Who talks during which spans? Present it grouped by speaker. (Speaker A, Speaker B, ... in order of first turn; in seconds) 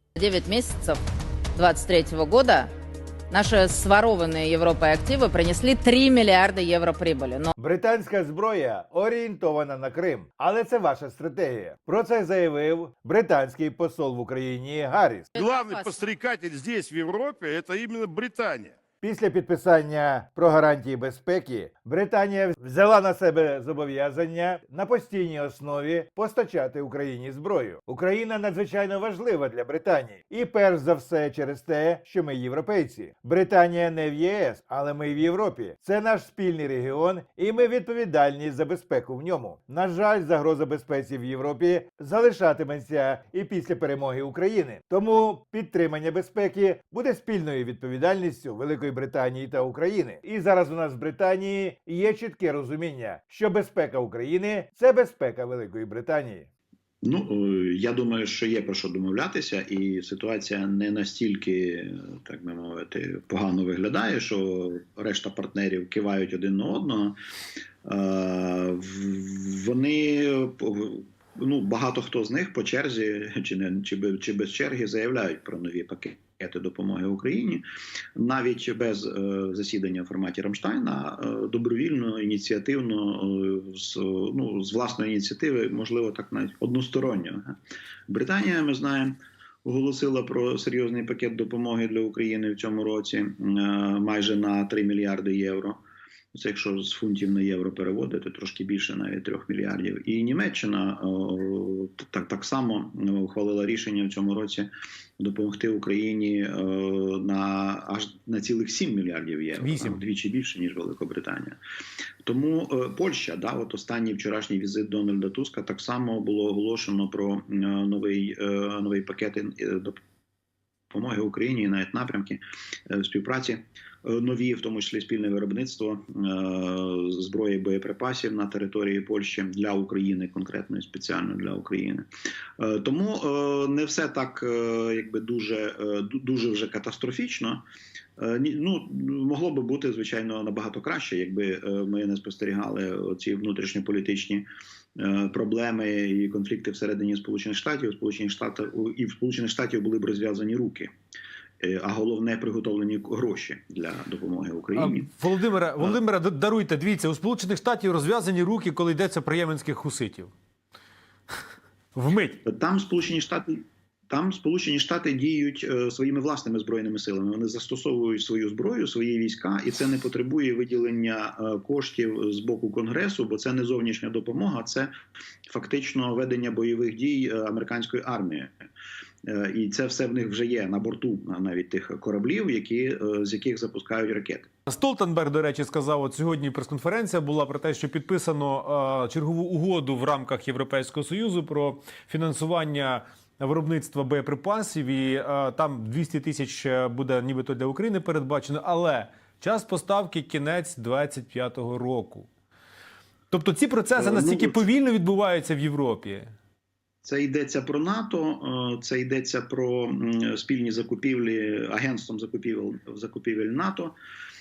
Speaker A: 0.2-1.0, 1.5-2.7, 3.3-7.5, 15.3-16.1
Speaker B: 7.6-15.3, 19.0-56.5
Speaker C: 15.4-18.8
Speaker D: 57.0-67.2, 67.8-77.6, 78.2-87.5, 88.1-95.8, 96.3-104.7, 105.2-111.6, 112.2-120.0, 120.9-132.1, 132.6-137.6, 138.2-150.9, 151.6-155.1, 162.4-174.9, 175.5-178.5, 179.3-184.5, 204.0-204.6, 207.0-213.9
Speaker E: 109.5-110.0, 154.8-160.3, 161.9-162.4, 184.7-202.3, 203.3-206.3